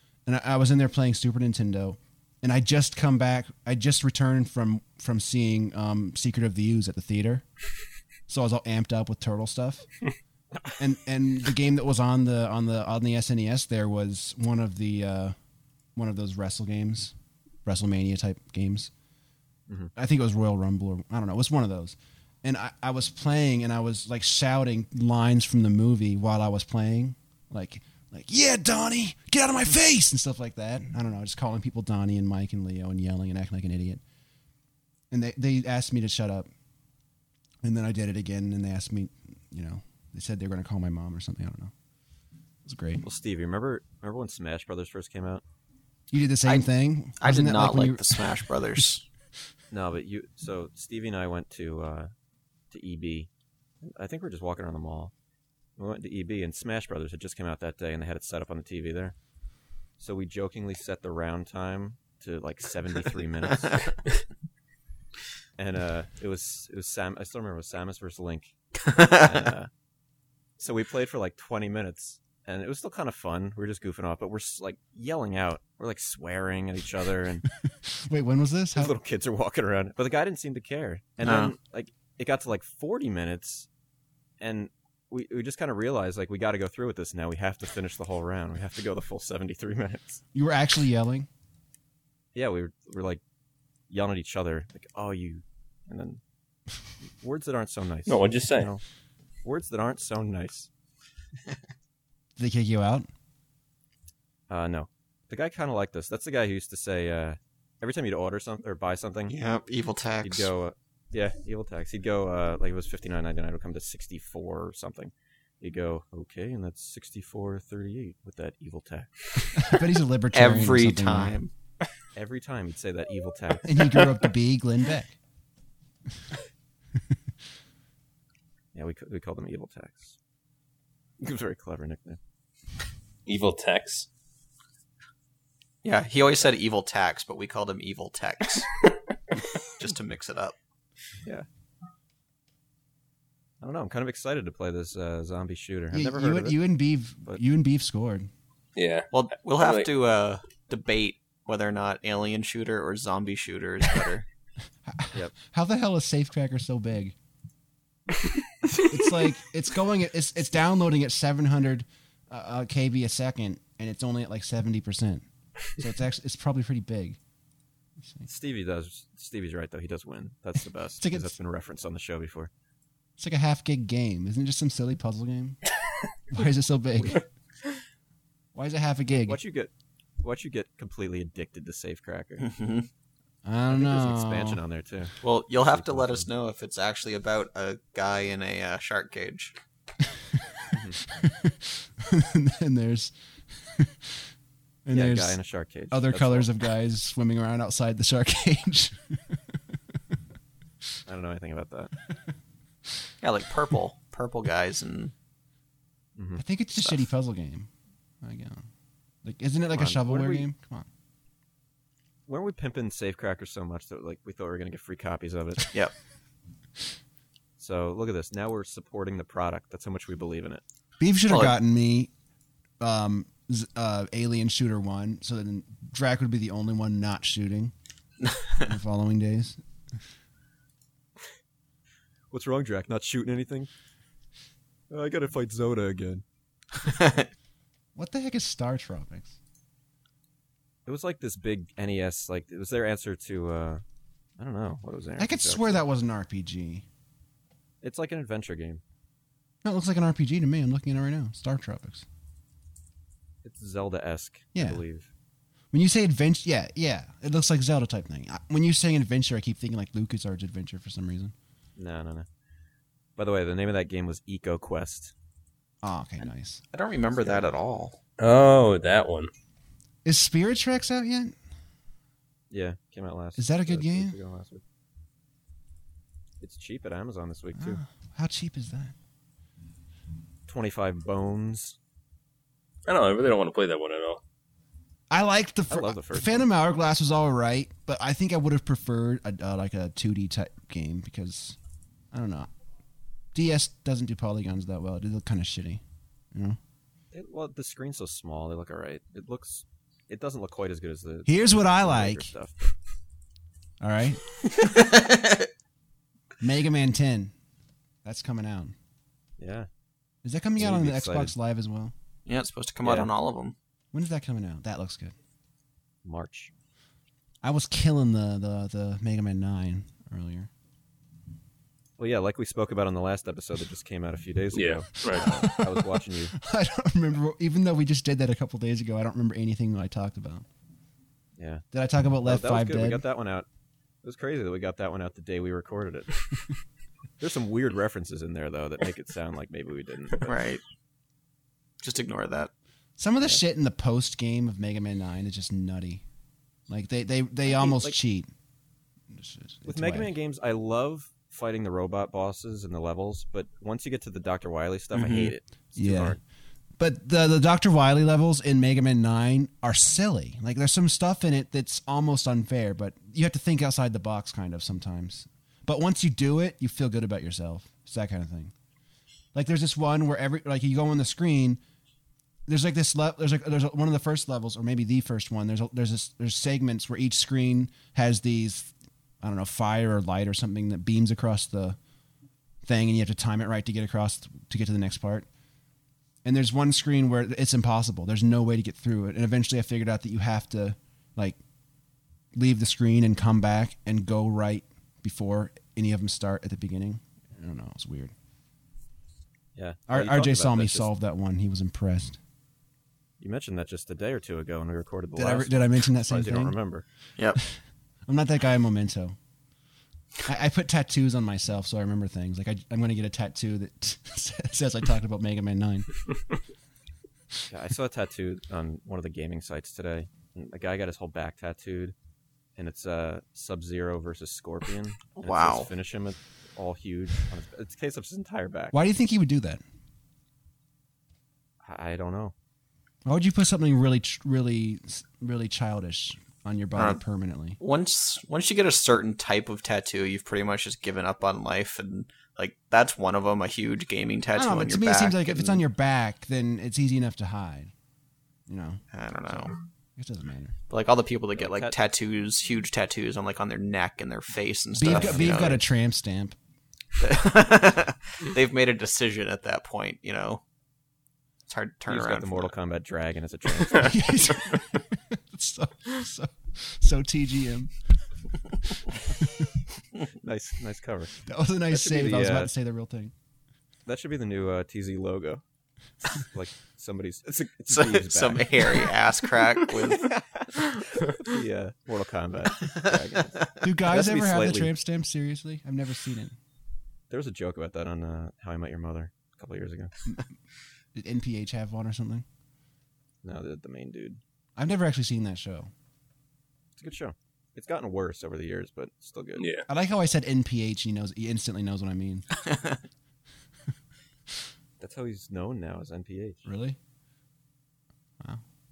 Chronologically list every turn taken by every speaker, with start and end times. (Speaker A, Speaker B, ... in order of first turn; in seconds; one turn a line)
Speaker A: 0.3-7.5
Speaker A: 8.3-9.9
Speaker A: 10.8-15.3
Speaker A: 16.0-17.1
Speaker A: 17.6-18.9
Speaker A: 20.0-34.0
Speaker A: 35.1-36.5
Speaker A: 37.6-41.7
Speaker A: 42.6-43.0
Speaker B: 43.0-45.4
Speaker A: 46.1-48.4
Speaker C: 47.2-49.0
Speaker B: 49.7-52.1
Speaker B: 52.7-53.3
Speaker B: 53.8-55.1
Speaker B: 55.8-59.1
Speaker B: 60.0-63.9
Speaker B: 65.6-69.7
Speaker C: 68.8-69.5
Speaker B: 70.6-77.5
Speaker A: 77.7-79.0
Speaker B: 78.8-83.7
Speaker C: 81.2-81.5
Speaker B: 84.4-90.2
Speaker A: 90.3-91.3
Speaker B: 92.3-93.2
Speaker B: 93.9-96.2
Speaker B: 97.2-98.8
Speaker D: 98.1-98.7
Speaker B: 99.4-100.7
Speaker A: 102.4-103.1
Speaker B: 104.5-109.4
Speaker C: 109.3-110.5
Speaker B: 110.2-119.1
Speaker A: 119.5-121.4
Speaker C: 120.3-121.5
Speaker B: 122.2-124.0
Speaker A: 123.6-125.2
Speaker B: 128.7-130.2
Speaker B: 131.2-132.2
Speaker D: 133.3-134.1
Speaker C: 135.8-138.7
Speaker C: 139.8-140.6
Speaker B: 143.6-146.7
Speaker A: 145.9-148.3
Speaker D: 148.8-149.9
Speaker C: 149.1-154.3
Speaker A: 154.8-157.2
Speaker A: 158.9-165.2
Speaker A: 165.8-167.2
Speaker A: 168.0-168.3
Speaker B: 168.3-172.5
Speaker A: 171.0-171.3
Speaker A: 173.2-175.6
Speaker A: 176.3-177.2
Speaker A: 178.6-179.4
Speaker B: 179.3-179.7
Speaker B: 180.2-182.5
Speaker C: 182.4-182.9
Speaker A: 183.4-184.6
Speaker B: 183.7-186.3
Speaker C: 185.2-189.6
Speaker A: 190.1-194.2
Speaker B: 190.7-191.0
Speaker A: 194.8-195.4
Speaker B: 194.9-196.5
Speaker A: 195.9-199.6
Speaker B: 201.1-201.9
Speaker C: 203.2-205.1
Speaker B: 206.2-206.4
Speaker A: 206.4-207.7
Speaker A: 208.2-208.6
Speaker A: 209.2-210.9
Speaker B: 209.7-210.5
Speaker B: 212.3-215.7
Speaker B: 217.6-220.6
Speaker A: 221.0-222.1
Speaker C: 221.3-221.6
Speaker A: 222.8-227.7
Speaker C: 228.2-228.7
Speaker A: 228.6-229.6
Speaker B: 232.3-233.7
Speaker B: 234.9-236.2
Speaker C: 236.8-237.3
Speaker A: 237.9-239.4
Speaker B: 240.9-243.8
Speaker B: 244.4-245.8
Speaker A: 245.2-246.8
Speaker B: 247.8-248.8
Speaker A: 249.6-252.1
Speaker B: 253.4-255.1
Speaker A: 254.6-254.8
Speaker A: 255.7-261.3
Speaker B: 261.8-262.3
Speaker B: 263.2-265.1
Speaker A: 265.8-266.6
Speaker C: 266.7-268.0
Speaker B: 267.2-267.5
Speaker D: 268.2-269.3
Speaker A: 270.1-271.4
Speaker B: 272.5-274.6
Speaker A: 273.4-274.2
Speaker B: 276.4-277.8
Speaker A: 277.6-278.9
Speaker B: 280.5-281.8
Speaker D: 282.9-284.2
Speaker A: 285.1-291.6
Speaker B: 285.7-286.5
Speaker A: 292.1-292.5
Speaker A: 293.3-296.6
Speaker B: 297.1-302.7
Speaker A: 301.3-302.3
Speaker A: 303.8-304.2
Speaker C: 304.6-305.5
Speaker A: 306.4-307.3
Speaker A: 308.0-308.8
Speaker B: 309.4-309.7
Speaker A: 310.2-311.9
Speaker B: 310.6-311.3
Speaker C: 312.3-313.6
Speaker B: 312.8-313.1
Speaker A: 313.9-315.1
Speaker B: 316.1-316.5
Speaker A: 317.4-320.5
Speaker B: 322.0-326.4
Speaker D: 324.5-325.3
Speaker A: 325.1-330.5
Speaker B: 331.4-331.6
Speaker A: 331.7-333.1
Speaker B: 332.2-333.5
Speaker B: 334.0-336.3
Speaker B: 337.2-340.4
Speaker C: 340.2-340.6
Speaker C: 341.8-342.5
Speaker A: 343.0-346.0
Speaker A: 346.7-348.3
Speaker B: 347.5-348.0
Speaker A: 349.1-350.1
Speaker B: 349.6-356.2
Speaker C: 354.9-355.3
Speaker A: 355.8-356.2
Speaker A: 356.8-368.5
Speaker A: 369.3-371.6
Speaker A: 372.5-381.8
Speaker A: 382.6-385.3
Speaker A: 386.2-391.4
Speaker A: 392.3-398.1
Speaker B: 399.6-400.9
Speaker A: 399.9-402.2
Speaker B: 403.2-406.9
Speaker A: 405.2-406.6
Speaker A: 408.1-409.2
Speaker A: 410.2-415.9
Speaker B: 417.5-421.9
Speaker B: 422.6-428.8
Speaker C: 425.2-425.7
Speaker A: 428.7-429.6
Speaker B: 431.6-432.3
Speaker A: 433.1-437.6
Speaker C: 437.6-445.6
Speaker A: 444.4-447.7
Speaker A: 448.5-450.6
Speaker C: 448.9-449.6
Speaker C: 450.7-455.6
Speaker B: 451.4-451.8
Speaker A: 454.8-456.4
Speaker B: 454.9-455.5
Speaker C: 457.0-460.4
Speaker C: 461.5-462.5
Speaker B: 461.9-464.0
Speaker A: 463.7-467.8
Speaker A: 469.0-469.5
Speaker B: 470.1-471.2
Speaker A: 471.2-473.1
Speaker B: 471.7-472.5
Speaker B: 473.9-475.4
Speaker B: 476.1-478.9
Speaker C: 477.7-480.1
Speaker B: 479.9-484.7
Speaker A: 483.6-486.4
Speaker B: 487.1-489.9
Speaker A: 490.9-492.2
Speaker B: 493.2-494.2
Speaker A: 494.6-495.7
Speaker B: 496.8-499.5
Speaker D: 499.4-499.7
Speaker A: 499.7-502.3
Speaker C: 502.5-502.8
Speaker B: 504.8-506.4
Speaker A: 506.5-506.8